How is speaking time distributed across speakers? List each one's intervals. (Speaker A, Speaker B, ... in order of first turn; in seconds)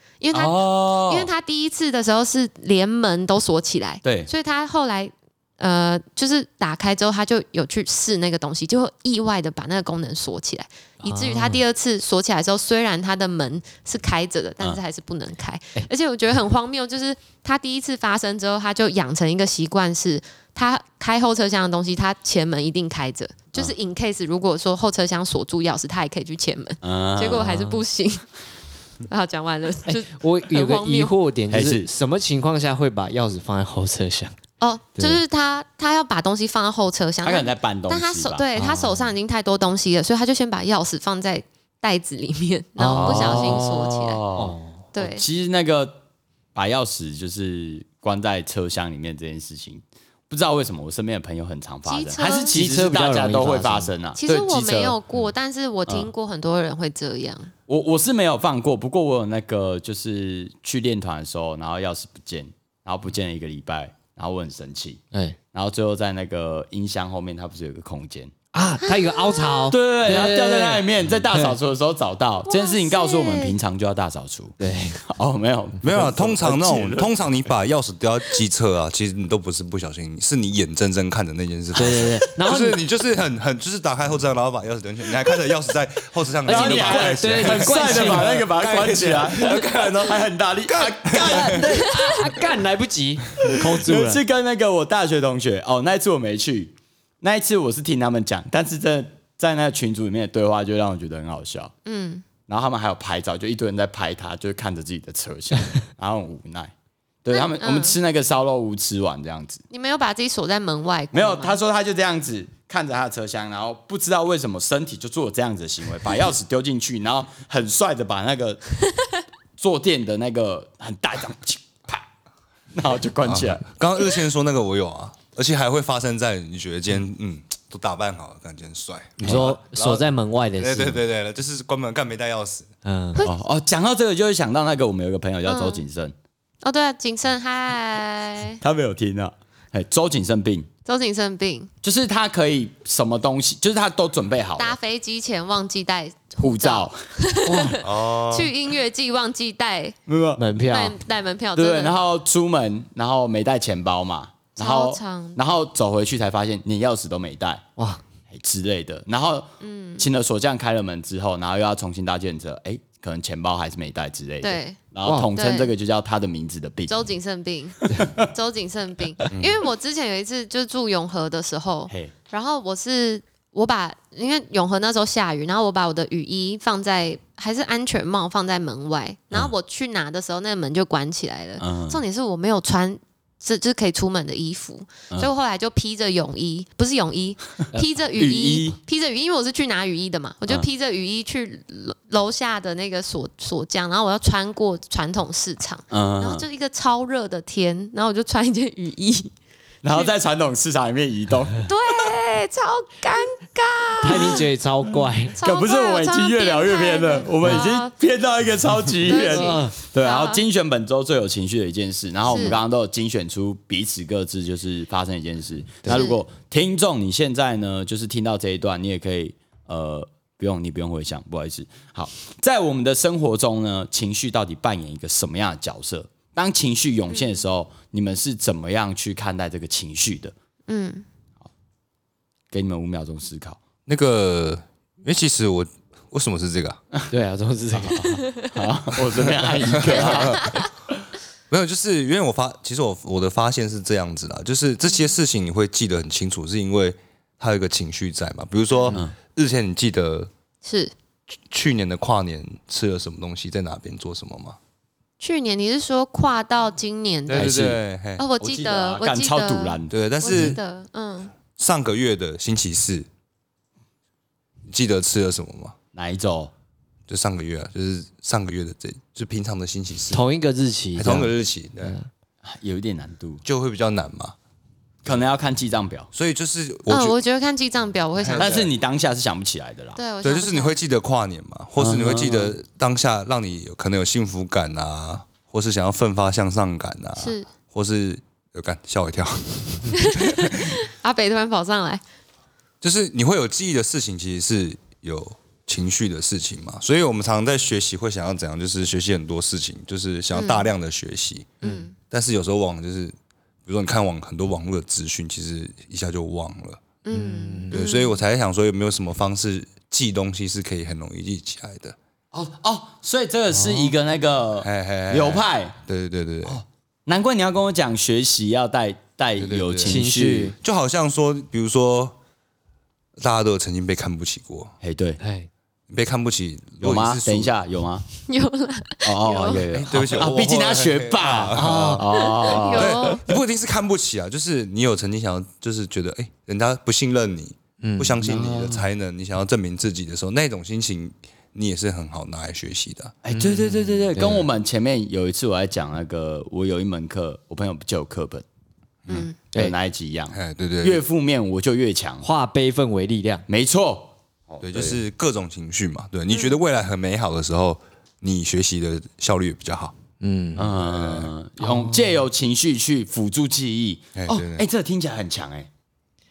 Speaker A: 0.2-28.3, 29.0-31.2, 34.6-44.2, 44.9-45.2, 51.9-52.6, 54.1-57.5, 68.8-69.7, 72.5-73.6, 91.7-92.1, 101.8-102.2, 107.3-108.0, 109.7-111.6, 135.4-135.8, 136.6-138.6, 140.8-141.7, 144.6-150.0, 150.7-152.0, 154.6-155.4, 159.6-160.1, 164.4-165.7, 166.9-199.3, 201.6-204.4, 205.3-207.9, 209.0-210.4, 212.3-212.6, 215.9-216.2, 227.1-227.4, 230.7-231.1, 240.3-240.7, 248.7-249.0, 250.6-250.9, 255.2-261.3, 276.9-278.7, 279.9-280.8, 287.2-287.5, 290.0-292.0, 300.3-300.7, 301.6-301.9, 307.0-308.2, 328.2-329.7, 332.1-333.2, 349.1-349.4, 356.3-356.6
Speaker B: 0.3-1.3, 4.0-4.3, 26.8-27.5, 31.5-31.9, 37.2-38.5, 42.8-46.0, 46.5-55.0, 55.9-56.1, 57.7-65.0, 65.5-68.3, 69.7-77.1, 86.5-92.1, 93.5-101.7, 102.5-106.7, 107.2-109.6, 111.1-118.6, 119.6-122.1, 122.7-123.7, 129.3-130.0, 133.2-136.1, 138.6-140.7, 141.8-144.8, 146.4-146.9, 150.1-150.5, 151.6-157.6, 158.3-167.0, 167.9-168.3, 171.9-172.1, 181.6-182.0, 188.2-188.8, 195.9-196.5, 199.8-201.6, 204.1-230.3, 232.5-233.6, 237.7-240.4, 257.3-257.8, 258.4-260.4, 265.9-266.5, 272.4-273.4, 275.1-276.1, 278.4-280.0, 281.8-282.6, 312.3-315.8, 316.4-320.5, 324.8-325.2, 326.8-328.1, 329.0-333.4, 338.3-338.8, 343.2-348.4, 349.1-352.3, 353.5-355.1, 360.6-365.7
Speaker C: 11.0-11.6, 27.3-27.8, 29.9-34.4, 35.0-35.2, 38.5-39.1, 42.8-43.7, 44.4-44.9, 52.2-53.9, 65.1-65.4, 68.5-71.6, 74.6-75.0, 81.7-82.8, 86.5-88.4, 91.8-94.2, 129.2-131.0, 132.8-133.3, 147.5-147.8, 150.4-151.0, 157.8-158.0, 165.0-165.3, 204.0-205.4, 209.1-209.8, 215.8-216.1, 237.1-238.2, 270.1-272.1, 307.1-307.8, 313.5-313.9, 319.8-320.6, 325.2-325.5, 331.5-332.3, 337.8-338.8, 343.3-344.5, 352.2-353.5, 360.2-360.7, 361.6-362.3
Speaker D: 75.8-91.7, 123.2-132.7, 147.8-148.5, 169.3-169.6, 233.9-236.8, 239.7-240.4, 241.5-250.3, 251.5-254.6, 257.3-258.2, 259.9-260.6, 261.6-263.1, 264.7-265.8, 267.1-270.2, 270.9-272.0, 273.4-274.4, 276.1-277.2, 278.2-278.7, 280.2-290.8, 292.8-303.1, 303.7-306.8, 307.7-312.0, 314.6-316.6, 319.4-322.2, 323.2-324.8, 325.9-327.5, 329.7-343.1, 350.3-351.0, 354.6-360.0, 360.7-361.3, 364.1-364.7